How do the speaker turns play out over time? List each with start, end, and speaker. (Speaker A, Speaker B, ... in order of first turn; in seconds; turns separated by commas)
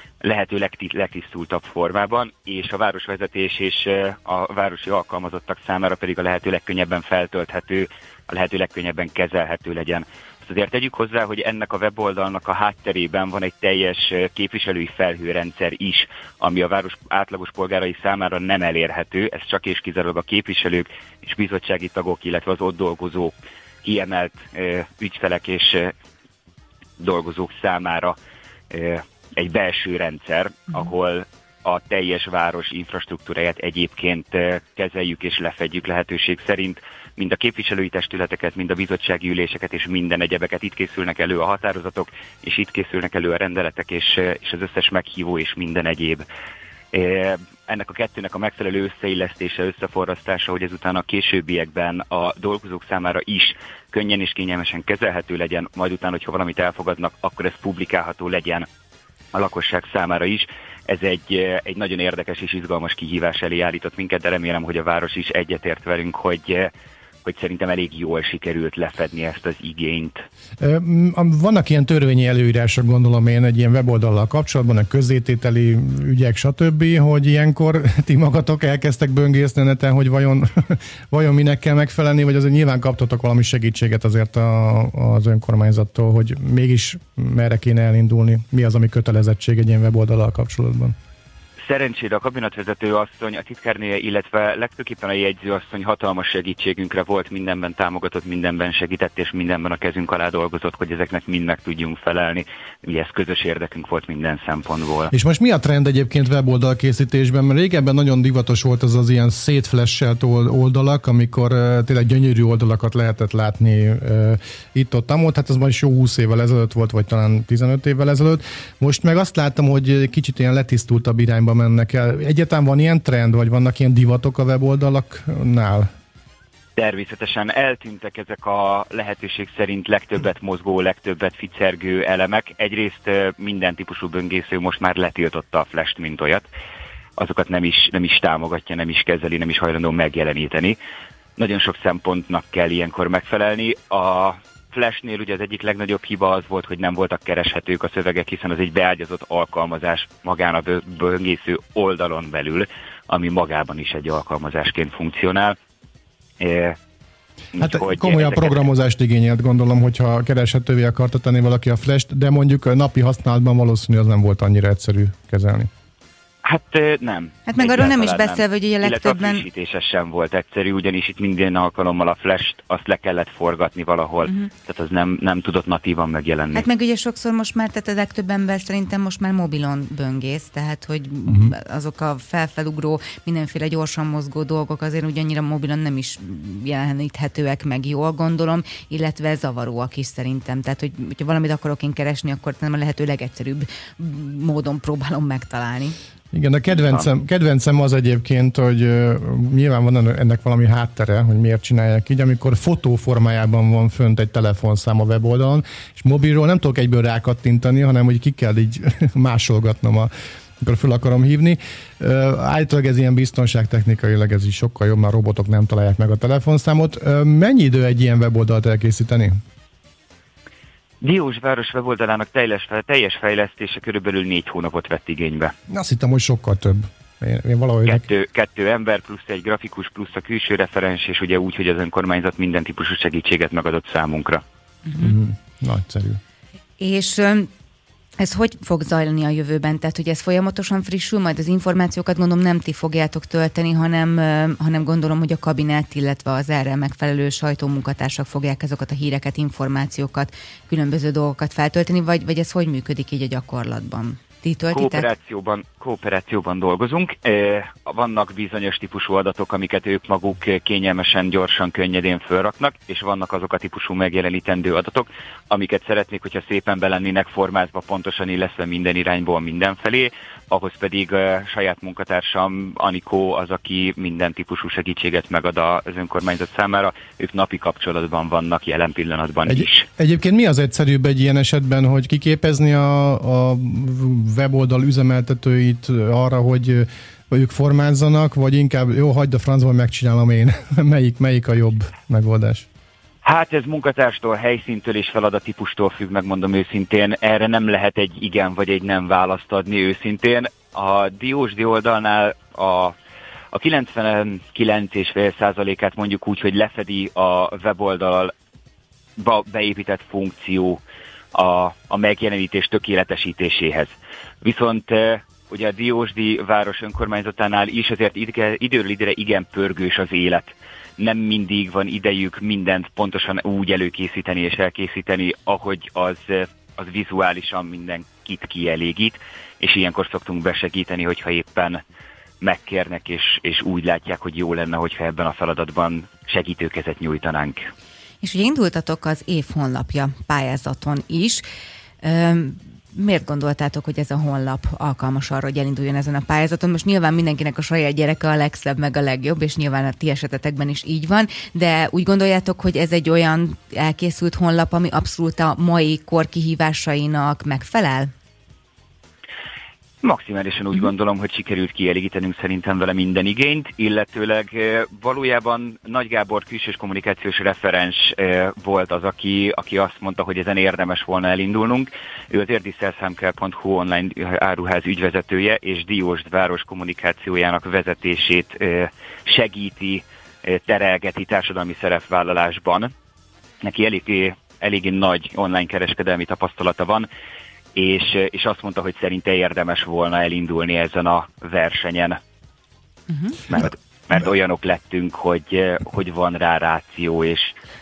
Speaker A: 0.2-25.9, Speaker A: 27.0-28.1, Speaker A: 28.7-46.3, Speaker A: 46.9-58.7, Speaker A: 59.3-66.7, Speaker A: 67.2-70.2, Speaker B: 70.6-90.9, Speaker A: 91.6-105.1, Speaker B: 105.1-125.9, Speaker A: 126.8-136.5, Speaker A: 137.2-140.8, Speaker A: 141.4-155.6, Speaker A: 156.4-156.8, Speaker A: 157.5-158.7, Speaker B: 157.6-165.7, Speaker A: 166.4-176.7, Speaker C: 167.5-169.4, Speaker C: 176.5-195.9, Speaker B: 181.3-181.5, Speaker B: 196.3-219.4, Speaker A: 221.0-225.5, Speaker B: 225.7-228.0, Speaker A: 227.8-234.4, Speaker C: 234.9-235.1, Speaker B: 235.0-236.2, Speaker C: 236.8-237.5, Speaker C: 238.2-255.1, Speaker A: 254.7-279.9, Speaker B: 279.4-292.6, Speaker A: 293.2-302.9, Speaker A: 303.5-308.3, Speaker A: 309.2-310.8, Speaker A: 311.3-331.8, Speaker A: 332.4-337.7, Speaker C: 338.2-341.4, Speaker C: 342.0-358.1, Speaker A: 360.0-382.9, Speaker A: 383.6-387.1, Speaker A: 387.7-392.2, Speaker A: 393.5-397.5